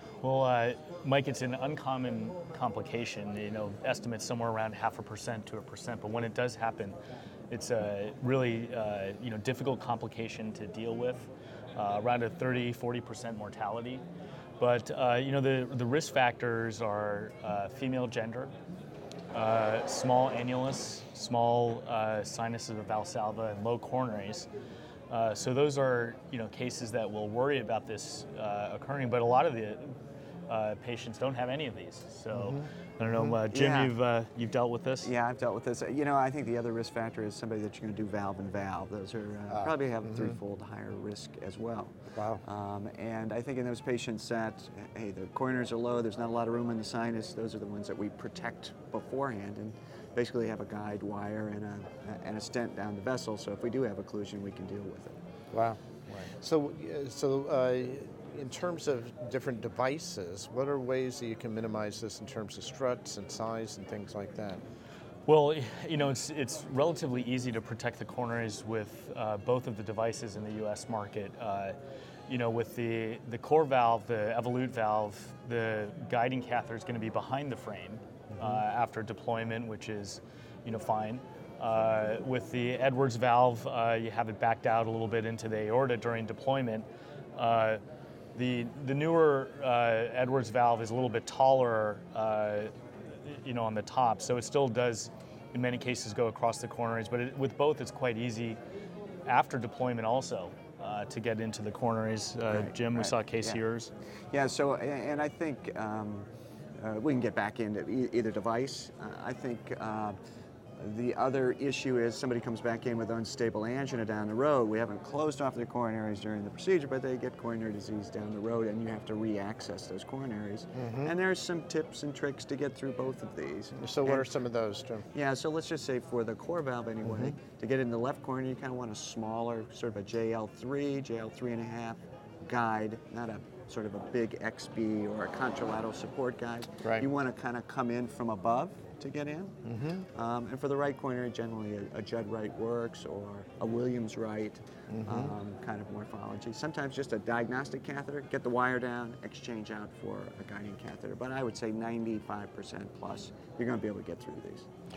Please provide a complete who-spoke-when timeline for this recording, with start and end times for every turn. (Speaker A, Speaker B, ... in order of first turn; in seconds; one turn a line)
Speaker A: 0.2-7.0
Speaker A: 7.5-14.0
Speaker A: 14.6-18.5
Speaker A: 19.3-24.5
Speaker A: 25.1-35.1
Speaker B: 32.3-32.7
Speaker C: 33.4-33.9
Speaker C: 35.0-55.2
Speaker B: 39.5-40.3
Speaker B: 42.1-42.4
Speaker B: 55.5-64.6
Speaker A: 65.3-87.8
Speaker A: 88.3-98.6
Speaker A: 99.2-103.9
Speaker C: 102.5-103.6
Speaker C: 104.3-110.2
Speaker C: 110.8-124.3
Speaker B: 120.7-121.1
Speaker B: 123.8-125.1
Speaker C: 125.1-154.7
Speaker B: 127.0-127.3
Speaker B: 136.8-137.1
Speaker B: 139.7-140.0
Speaker B: 144.9-145.3